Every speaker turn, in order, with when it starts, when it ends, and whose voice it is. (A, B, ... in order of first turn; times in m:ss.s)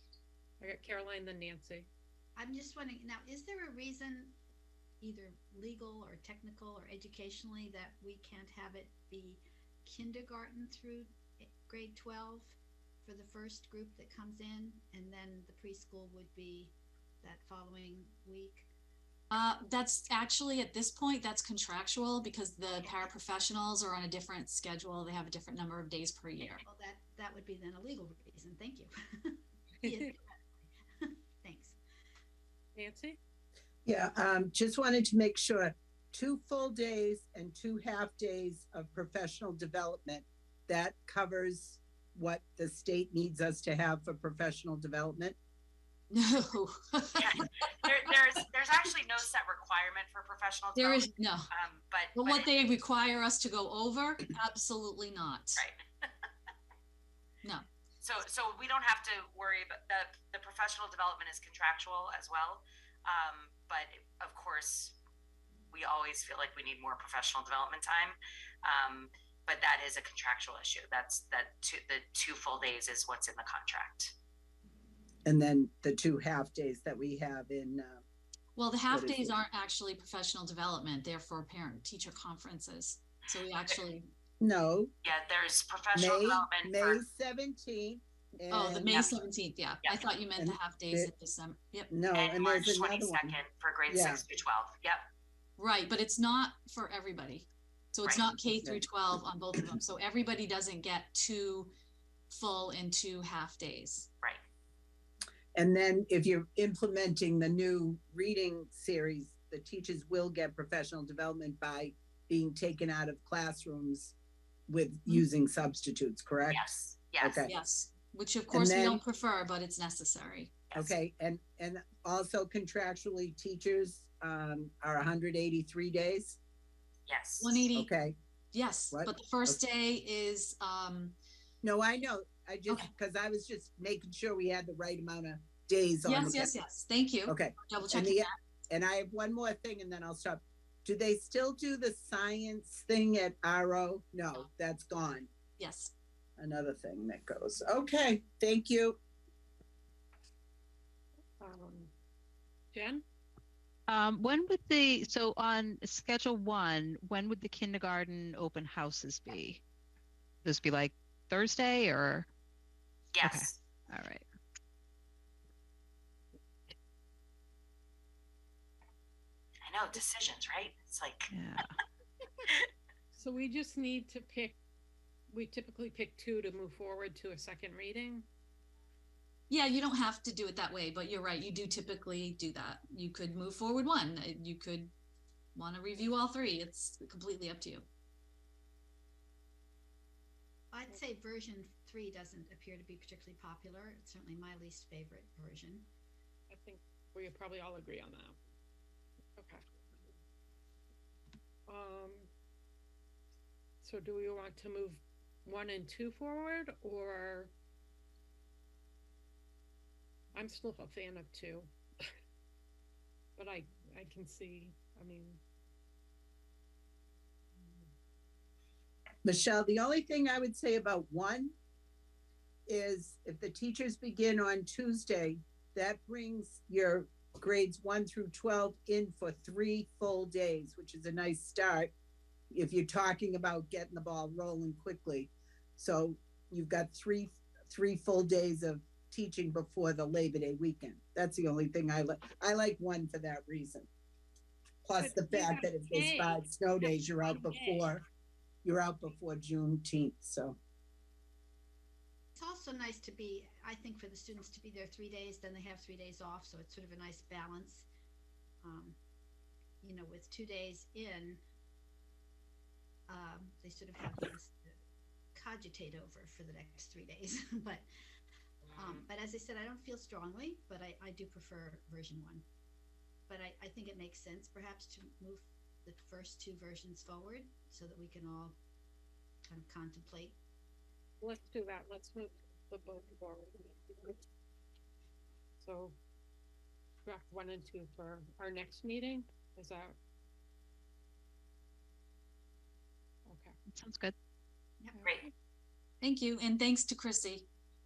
0:00.6-0:01.9 A
0:02.4-0:04.4 B
0:05.0-0:18.7 B
0:19.3-0:26.6 C
0:26.6-0:30.4 B
0:29.8-0:30.1 A
0:31.0-0:31.8 B
0:32.8-0:33.2 A
0:33.9-0:45.4 D
0:46.1-0:47.9 C
0:47.2-0:52.5 E
0:50.8-0:51.5 C
0:52.2-0:55.6 C
0:58.0-1:05.0 E
1:05.7-1:14.1 E
1:15.3-1:18.0 D
1:18.6-1:24.1 C
1:18.9-1:19.4 D
1:24.4-1:24.9 D
1:25.0-1:27.0 E
1:25.9-1:29.1 D
1:28.5-1:31.9 C
1:28.9-1:29.2 E
1:30.4-1:31.1 D
1:31.9-1:33.4 D
1:32.1-1:35.0 E
1:33.9-1:34.2 D
1:35.6-1:41.7 C
1:42.3-1:44.1 C
1:45.6-1:54.2 D
1:54.7-1:56.6 D
1:56.5-1:57.5 E
1:57.2-1:57.5 D
1:57.5-2:00.6 C
1:58.5-1:59.0 D
2:00.8-2:06.4 D
2:07.1-2:07.7 E
2:07.4-2:07.9 C
2:07.8-2:08.2 D
2:08.5-2:11.2 C
2:08.9-2:09.6 D
2:11.6-2:16.6 D
2:16.0-2:18.4 C
2:17.3-2:25.3 D
2:25.6-2:25.9 C
2:26.4-2:29.0 D
2:31.4-2:31.9 A
2:32.7-2:33.0 A
2:33.9-2:39.6 F
2:40.4-2:42.3 F
2:43.1-2:43.6 E
2:43.2-2:44.2 F
2:49.7-2:51.3 E
2:51.3-2:51.7 F
2:53.2-2:54.6 A
2:55.3-2:58.3 A
2:59.5-3:04.9 C
3:05.6-3:07.9 C
3:10.7-3:15.9 B
3:16.5-3:18.4 A
3:19.4-3:19.6 A
3:21.7-3:22.3 A
3:23.8-3:27.5 A
3:30.3-3:31.7 A
3:33.4-3:35.4 A
3:39.2-3:41.5 D
3:42.7-3:51.9 D
3:52.5-4:03.9 D
4:04.8-4:08.0 D
4:05.0-4:07.9 A
4:08.6-4:10.6 D
4:12.4-4:17.9 B
4:18.6-4:19.0 B
4:19.8-4:21.4 B
4:23.1-4:24.8 B
4:25.4-4:27.9 B
4:28.8-4:32.4 B
4:33.3-4:38.6 B
4:39.5-4:40.4 B
4:41.2-4:44.2 A
4:45.6-4:46.0 A
4:47.1-4:50.0 A
4:53.3-4:53.6 A
4:53.8-4:54.1 F
4:56.0-4:57.5 C